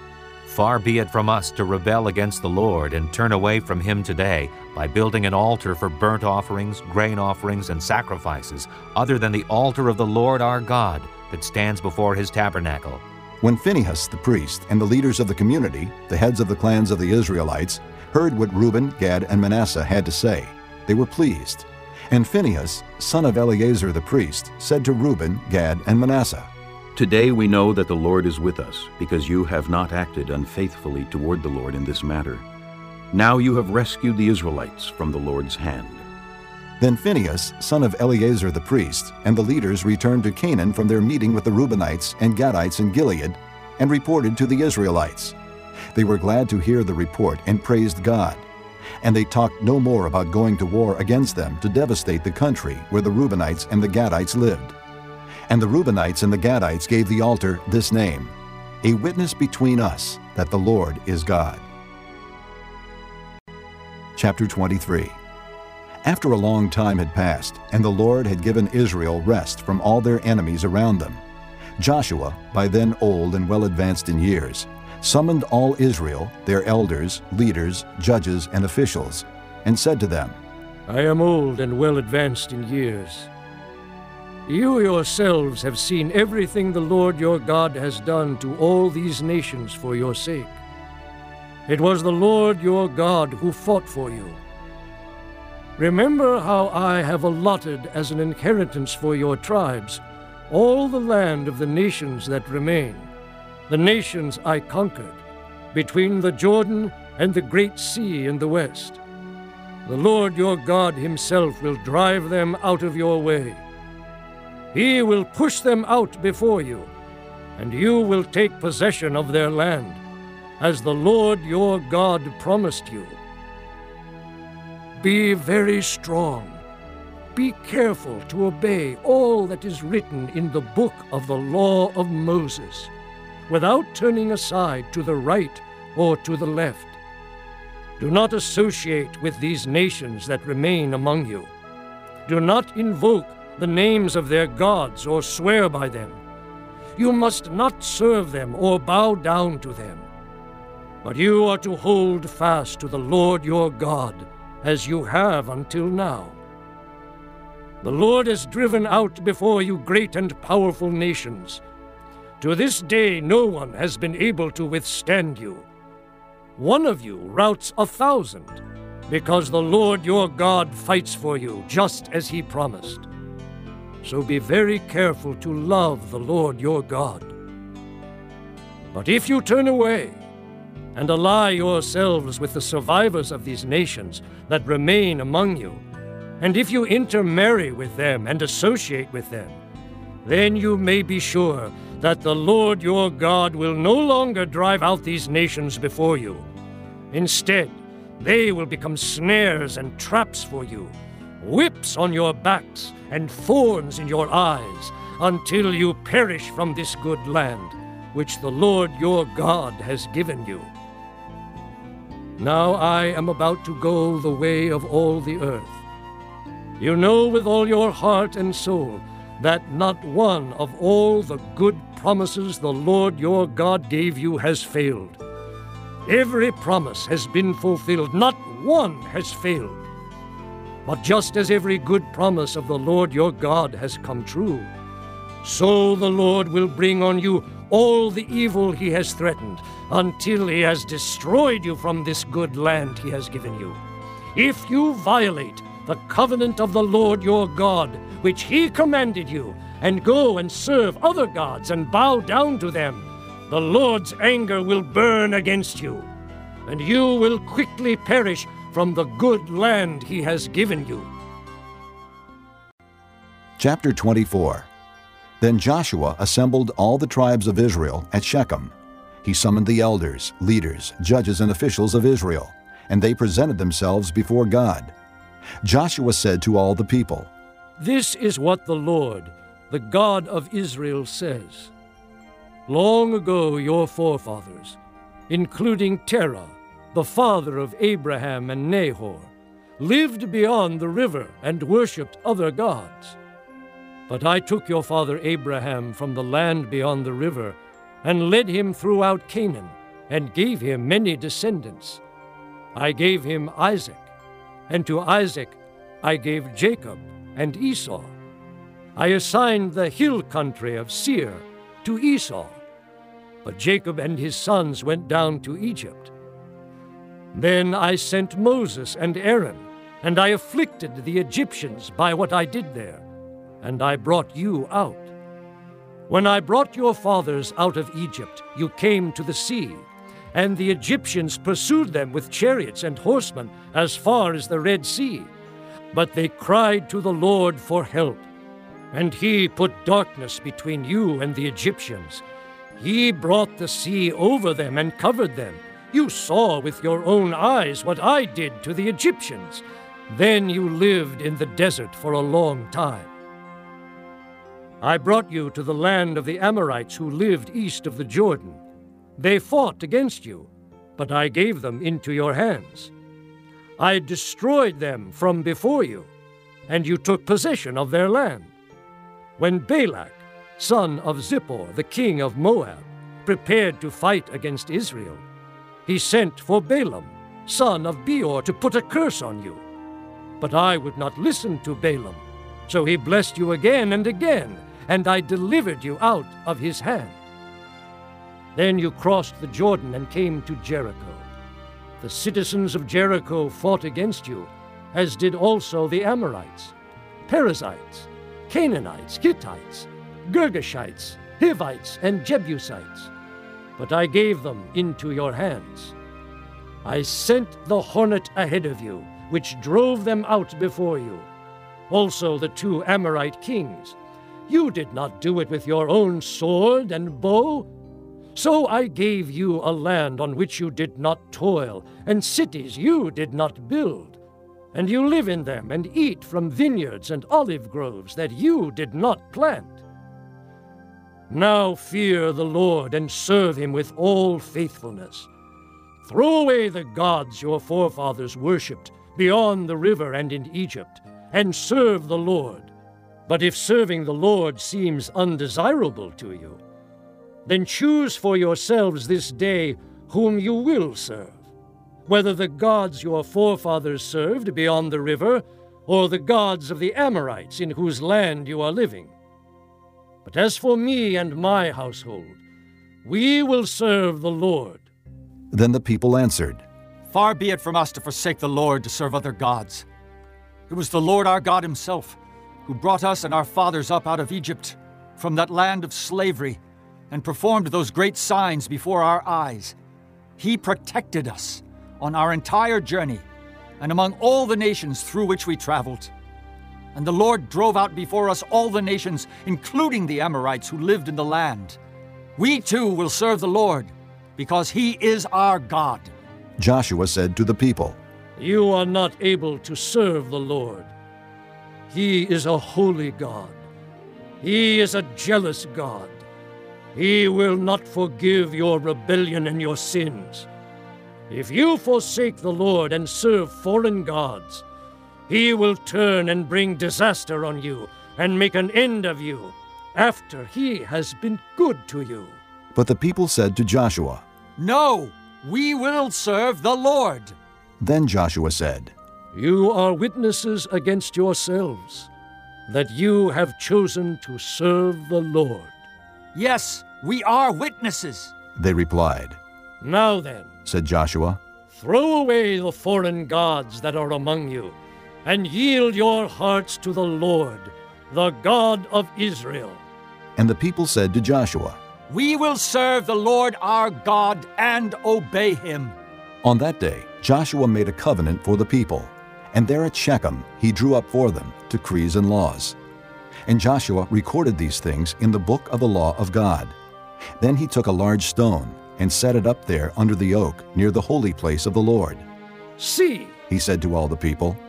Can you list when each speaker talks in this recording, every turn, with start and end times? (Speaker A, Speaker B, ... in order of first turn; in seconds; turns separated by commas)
Speaker A: 0.5-13.0, Speaker B: 13.4-26.5, Speaker C: 26.9-32.5, Speaker C: 33.1-36.1, Speaker B: 36.8-45.4, Speaker B: 45.9-48.5, Speaker B: 49.0-54.8, Speaker B: 55.5-61.7, Speaker B: 64.2-65.2, Speaker B: 66.0-71.2, Speaker B: 71.8-80.4, Speaker D: 80.9-83.3, Speaker D: 84.5-90.6, Speaker D: 91.7-94.4, Speaker D: 95.8-103.1, Speaker D: 103.7-105.2, Speaker D: 105.7-109.0, Speaker D: 109.9-113.6, Speaker D: 114.7-116.9, Speaker D: 117.6-120.0, Speaker D: 120.6-123.2, Speaker D: 125.0-126.6, Speaker D: 127.3-132.9, Speaker D: 133.5-137.0, Speaker D: 138.0-141.5, Speaker D: 142.3-146.2, Speaker D: 147.0-150.1, Speaker D: 151.0-156.4, Speaker D: 157.8-161.6, Speaker D: 162.4-165.7, Speaker D: 166.6-173.1, Speaker D: 174.0-177.3, Speaker D: 178.9-180.2, Speaker D: 180.9-185.8, Speaker D: 186.4-189.6, Speaker D: 190.2-196.5, Speaker D: 197.1-210.7, Speaker D: 212.4-215.8, Speaker D: 216.8-225.2, Speaker D: 226.1-229.8, Speaker D: 230.9-234.7, Speaker D: 235.4-243.8, Speaker D: 244.3-256.1, Speaker D: 256.7-261.1, Speaker B: 263.6-264.7, Speaker B: 265.4-274.9, Speaker B: 275.6-277.3, Speaker D: 277.8-281.7, Speaker D: 282.7-284.8, Speaker D: 285.3-293.2, Speaker D: 294.1-302.0, Speaker D: 302.8-304.1, Speaker D: 304.7-308.1, Speaker D: 309.0-312.6, Speaker D: 313.4-316.1, Speaker D: 317.3-323.0, Speaker D: 323.6-325.1, Speaker D: 326.1-335.3, Speaker D: 335.9-338.3, Speaker D: 338.9-342.2, Speaker D: 342.8-353.1, Speaker D: 354.8-358.6, Speaker D: 359.2-362.9, Speaker D: 363.8-366.1, Speaker D: 366.7-368.5, Speaker D: 369.4-375.2, Speaker D: 375.9-379.6, Speaker D: 380.4-387.2, Speaker D: 388.6-391.3, Speaker D: 392.0-396.7, Speaker D: 397.3-403.1, Speaker D: 403.8-405.9, Speaker D: 406.8-411.3, Speaker D: 411.9-414.0, Speaker D: 414.5-417.7, Speaker D: 418.4-424.2, Speaker D: 424.7-429.8, Speaker D: 431.3-435.3, Speaker D: 436.0-442.7, Speaker D: 443.3-446.6, Speaker D: 447.5-451.4, Speaker D: 452.1-459.1, Speaker D: 460.2-462.4, Speaker D: 463.1-464.9, Speaker B: 465.5-466.6, Speaker E: 467.1-469.9, Speaker E: 470.7-476.6, Speaker E: 477.1-479.8, Speaker E: 480.4-483.2, Speaker E: 483.8-486.1, Speaker E: 486.9-491.8, Speaker E: 492.4-496.1, Speaker B: 496.6-498.0, Speaker D: 498.4-500.9, Speaker D: 501.9-503.6, Speaker D: 504.4-506.2, Speaker D: 506.9-510.5, Speaker D: 511.3-514.6, Speaker D: 515.3-522.4, Speaker B: 522.7-524.2, Speaker E: 524.6-527.4, Speaker B: 527.8-528.9, Speaker D: 529.3-532.1, Speaker D: 532.7-535.8, Speaker E: 536.3-538.3, Speaker B: 538.6-539.4, Speaker D: 539.8-540.5, Speaker B: 540.7-541.4, Speaker D: 541.7-549.8, Speaker B: 550.4-551.8, Speaker E: 552.1-556.0, Speaker B: 556.4-562.8, Speaker B: 563.5-566.8, Speaker B: 567.4-572.3, Speaker D: 572.8-573.3, Speaker B: 573.5-574.6